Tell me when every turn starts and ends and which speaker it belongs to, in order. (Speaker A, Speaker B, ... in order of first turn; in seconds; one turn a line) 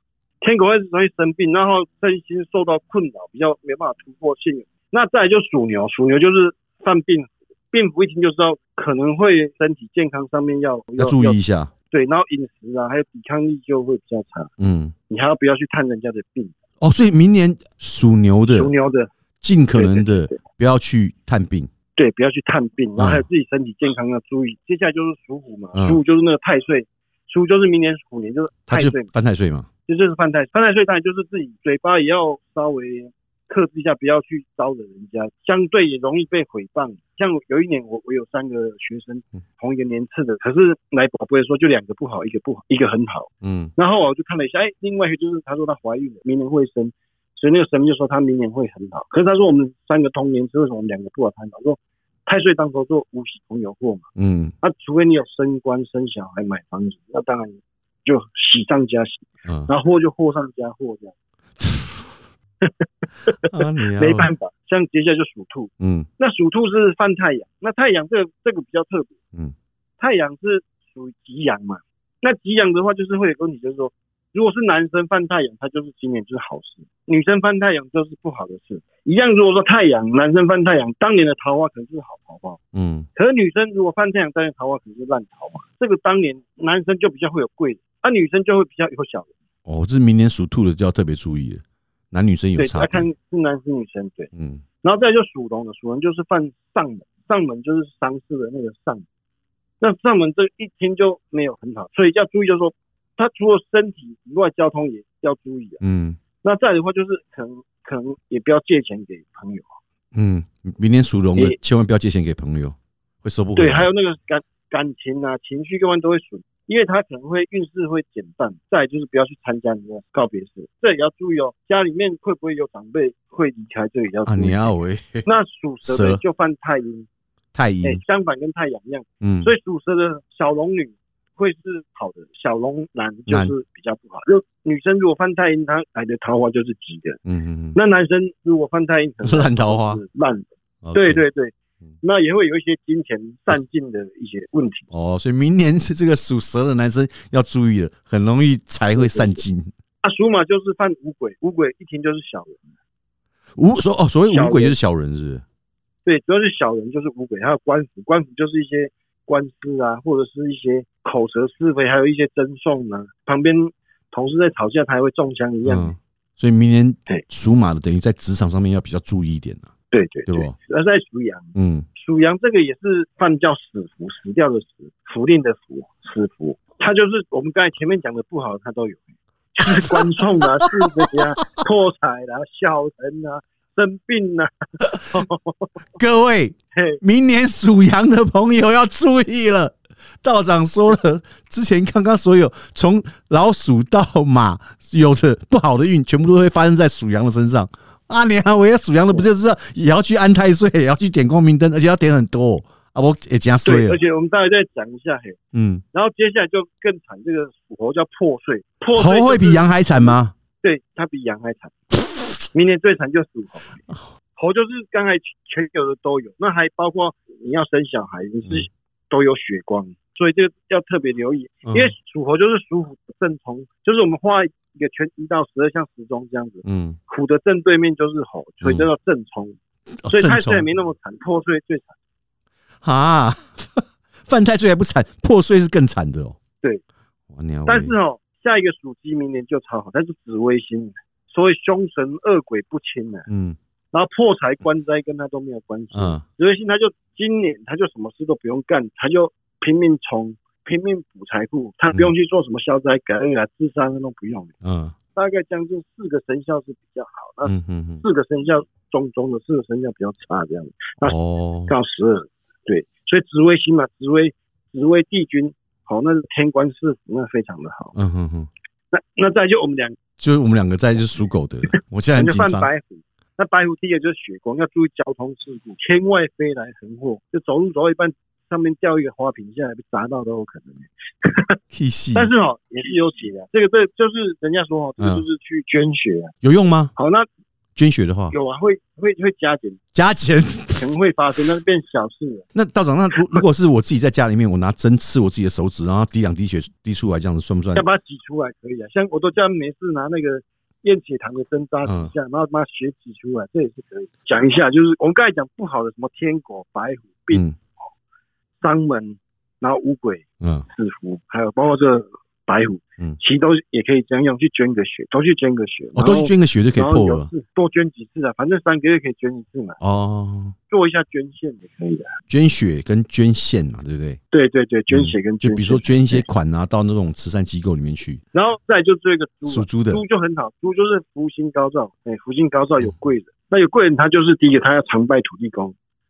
Speaker A: 0.4-14.5
Speaker B: 11.0-11.7
Speaker B: 14.6-14.9
Speaker A: 15.1-16.5
Speaker B: 16.8-18.7
Speaker A: 18.5-19.1
Speaker B: 19.4-21.7
Speaker A: 19.7-20.4
Speaker A: 21.9-29.1
Speaker B: 23.0-23.2
Speaker B: 25.8-26.0
Speaker B: 28.7-29.7
Speaker A: 29.9-54.1
Speaker B: 43.4-43.7
Speaker B: 54.2-54.5
Speaker A: 54.6-61.7
Speaker B: 59.5-59.7
Speaker A: 62.6-69.1
Speaker B: 63.5-64.3
Speaker B: 65.8-66.1
Speaker A: 70.0-82.6
Speaker B: 82.7-83.1
Speaker A: 83.2-89.3
Speaker B: 89.7-93.1
Speaker A: 92.6-94.3
Speaker B: 94.3-94.6
Speaker A: 94.8-99.0
Speaker A: 99.8-105.8
Speaker B: 105.8-106.2
Speaker A: 106.4-109.8
Speaker B: 110.2-113.9
Speaker A: 113.6-127.1
Speaker B: 124.2-125.3
Speaker B: 125.8-126.2
Speaker B: 127.5-128.0
Speaker A: 127.8-137.2
Speaker B: 129.2-129.5
Speaker B: 133.3-133.5
Speaker B: 137.3-137.8
Speaker A: 137.7-144.9
Speaker B: 139.2-140.0
Speaker B: 140.8-141.2
Speaker B: 144.9-149.7
Speaker A: 149.0-149.4
Speaker A: 150.0-152.6
Speaker B: 153.6-155.4
Speaker A: 154.3-154.8
Speaker A: 156.1-166.0
Speaker B: 165.6-169.7
Speaker A: 169.9-185.8
Speaker B: 170.3-170.6
Speaker B: 171.6-171.9
Speaker B: 179.6-181.2
Speaker B: 186.0-204.0
Speaker A: 186.8-187.0
Speaker A: 203.6-205.4
Speaker B: 205.5-205.8
Speaker A: 205.9-211.8
Speaker B: 208.9-210.3
Speaker A: 212.5-213.8
Speaker A: 214.4-229.6
Speaker B: 221.7-221.9
Speaker B: 226.6-227.0
Speaker B: 228.6-228.9
Speaker B: 230.0-230.7
Speaker A: 230.1-231.9
Speaker B: 232.8-236.4
Speaker B: 237.3-237.9
Speaker A: 237.7-243.3
Speaker B: 243.3-243.6
Speaker A: 243.9-254.5
Speaker B: 245.9-246.2
Speaker B: 254.6-254.9
Speaker A: 255.1-261.2
Speaker B: 257.4-258.0
Speaker B: 261.0-261.7
Speaker A: 261.7-268.0
Speaker B: 267.9-268.5
Speaker A: 268.9-270.0
Speaker B: 270.2-272.7
Speaker A: 272.1-281.6
Speaker B: 281.7-282.3
Speaker A: 282.1-286.3
Speaker B: 285.0-285.2
Speaker B: 286.4-286.9
Speaker A: 286.9-287.3
Speaker B: 287.8-288.4
Speaker A: 288.3-289.8
Speaker B: 289.9-290.9
Speaker A: 290.8-292.5
Speaker B: 292.6-297.9
Speaker A: 297.7-307.7
Speaker B: 301.9-302.1
Speaker B: 307.3-307.6
Speaker A: 308.6-319.8
Speaker B: 310.4-310.7
Speaker B: 315.9-317.3
Speaker B: 319.8-320.6
Speaker A: 320.7-322.1
Speaker B: 322.3-324.2
Speaker A: 324.3-326.2
Speaker B: 324.9-328.2
Speaker A: 328.3-335.8
Speaker B: 329.5-330.0